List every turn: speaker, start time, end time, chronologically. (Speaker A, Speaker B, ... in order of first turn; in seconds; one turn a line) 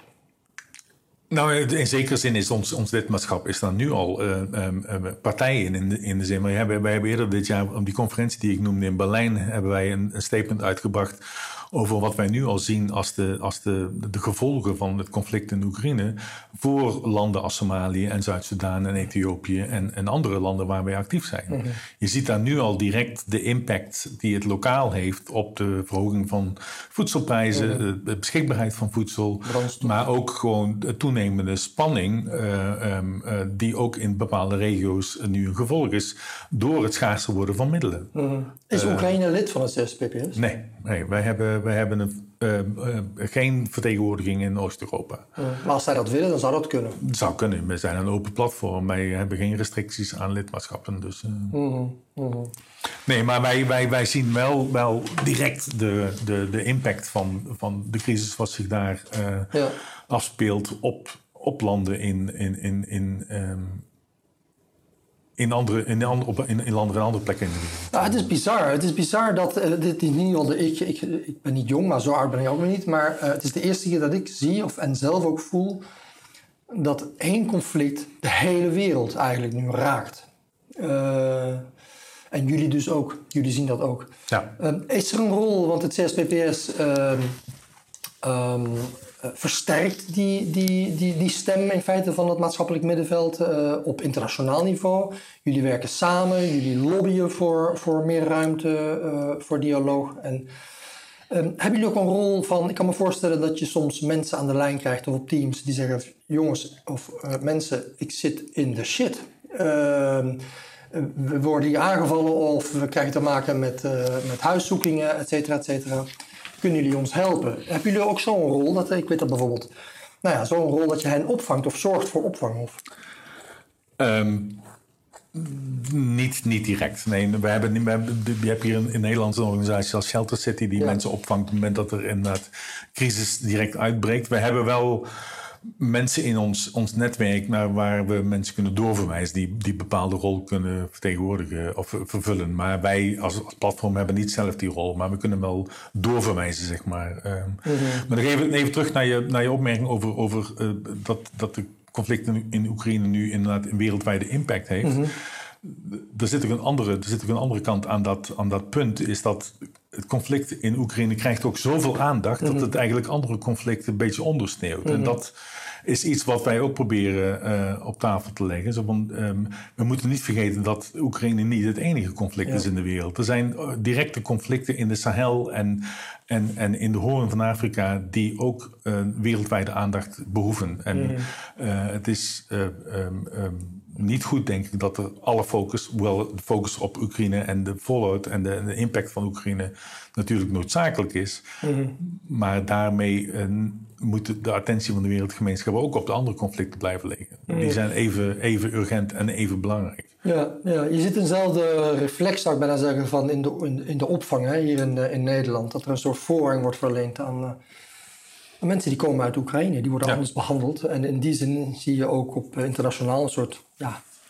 Speaker A: 1.3-38.1
Speaker B: 27.5-27.8
Speaker B: 29.4-30.0
Speaker B: 38.1-40.4
Speaker A: 38.7-39.1
Speaker A: 40.4-45.3
Speaker B: 45.4-47.0
Speaker A: 47.0-51.5
Speaker B: 51.5-52.5
Speaker A: 52.9-63.8
Speaker B: 59.5-59.8
Speaker A: 65.4-68.3
Speaker B: 67.9-75.8
Speaker B: 76.7-81.7
Speaker B: 82.3-87.4
Speaker B: 88.2-100.5
Speaker B: 101.3-116.1
Speaker B: 116.6-119.7
Speaker B: 120.2-122.8
Speaker A: 124.0-124.6
Speaker A: 125.3-135.1
Speaker A: 135.6-191.4
Speaker B: 147.6-148.1
Speaker B: 154.8-155.1
Speaker B: 162.4-162.7
Speaker B: 164.8-165.1
Speaker B: 180.9-181.3
Speaker B: 191.6-191.9
Speaker A: 192.0-200.1
Speaker B: 197.5-197.8
Speaker B: 200.2-207.6
Speaker B: 208.6-214.0